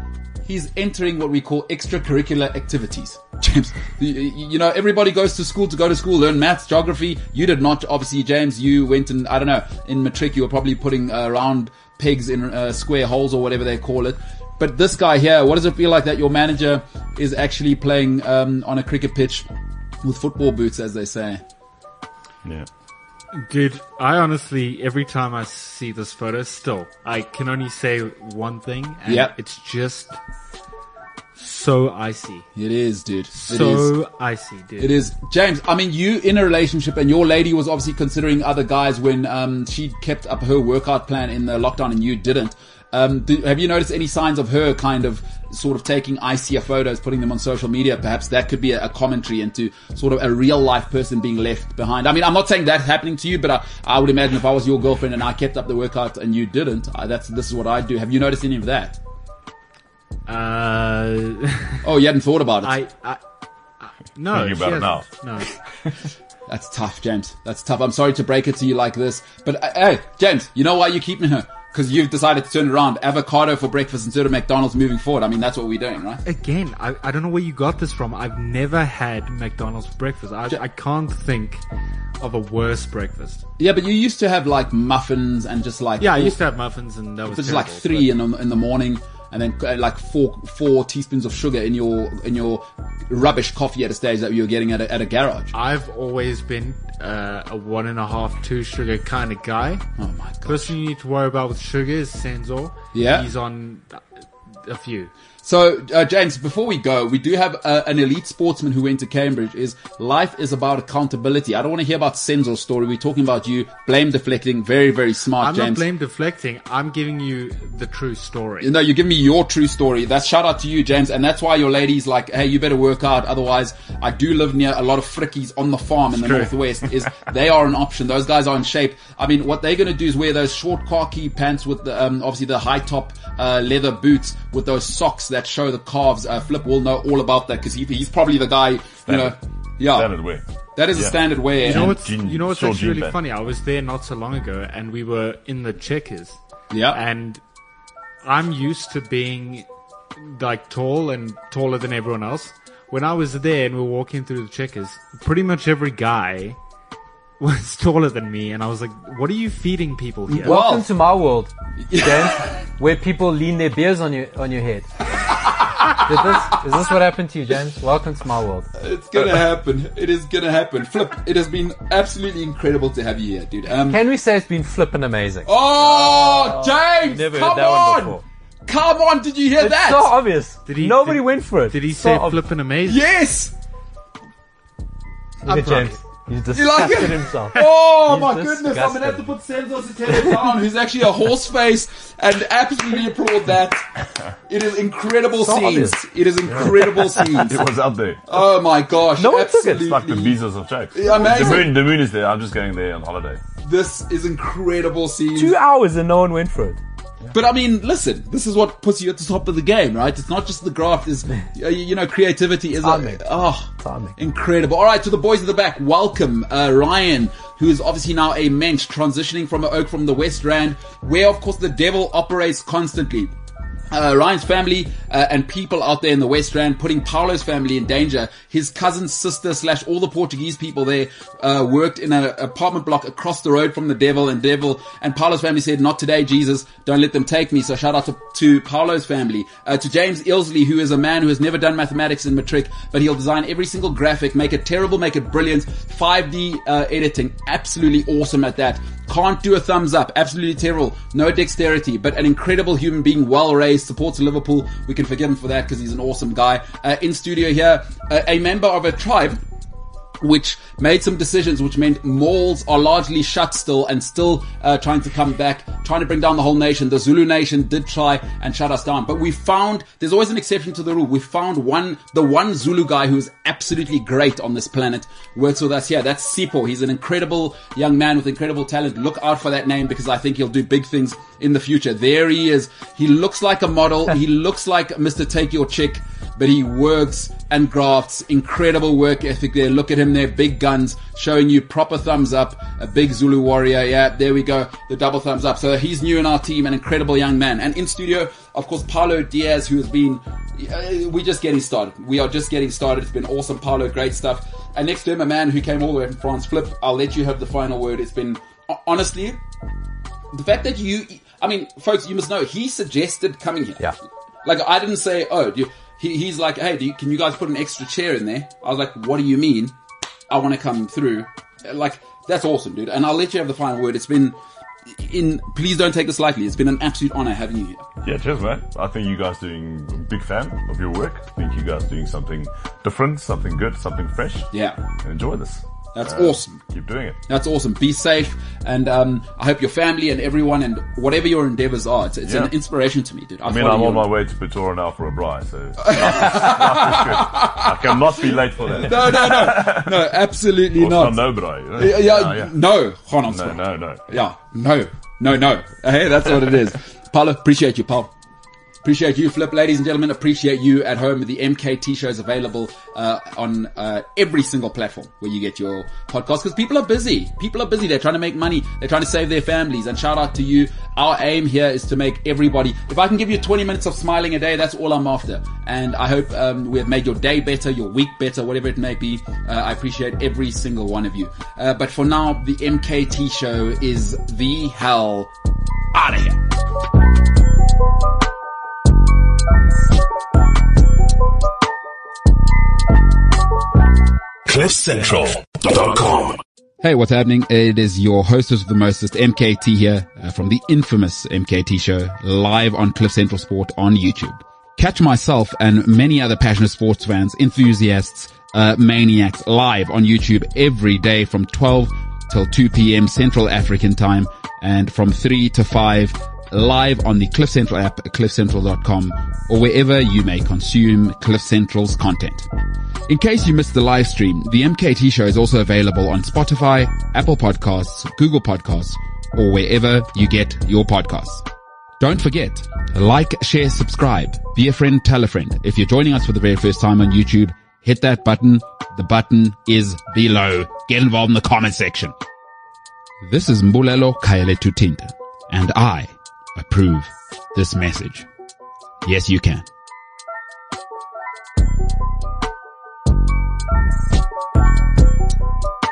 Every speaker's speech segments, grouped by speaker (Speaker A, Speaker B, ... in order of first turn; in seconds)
Speaker A: 0.5-19.5, 20.0-21.4, 29.1-29.3, 32.6-33.9, 34.8-59.0, 61.8-62.8, 66.5-76.2, 83.6-86.4, 87.3-95.5, 100.0-100.7, 102.9-103.3, 105.4-115.8, 118.6-140.1, 140.8-142.0, 146.7-147.0, 160.3-160.9, 161.8-162.5, 168.8-174.0, 175.5-180.2, 182.8-183.5, 186.5-193.9, 194.5-197.6, 198.3-200.4, 200.9-201.8, 203.6-205.6, 207.3-223.3, 223.9-259.4, 260.2-309.4, 310.3-313.8, 314.4-319.8, 320.3-324.4, 324.9-327.9, 334.5-334.8, 335.9-336.6, 337.3-344.1, 345.8-358.1, 358.8-385.3, 385.9-386.4, 396.8-422.5, 423.1-431.4, 432.0-442.1, 443.2-448.3, 449.0-449.7
Speaker B: 23.3-30.2, 31.4-32.5, 33.3-34.9, 60.3-61.9, 62.6-63.2, 63.8-65.5, 76.2-81.6, 82.2-83.4, 86.0-88.1, 95.5-99.8, 100.5-104.0, 104.6-105.1, 115.4-118.7, 126.1-126.5, 141.6-146.4, 146.9-147.4, 148.2-156.6, 157.4-160.6, 180.7-183.1, 185.5-185.9
Speaker C: 64.3-65.1, 139.1-140.4, 140.9-143.2, 197.3-198.2, 199.7-203.4, 328.0-337.2, 342.2-342.5, 343.4-350.1, 350.8-352.6, 353.2-354.1
Speaker D: 160.4-164.9, 165.9-168.7, 173.9-175.5, 176.6-178.2, 179.6-182.4, 185.5-189.3, 195.4-196.0, 196.6-196.8, 199.2-199.9, 205.4-206.8, 212.8-213.3, 213.8-214.2
Speaker E: 394.5-396.4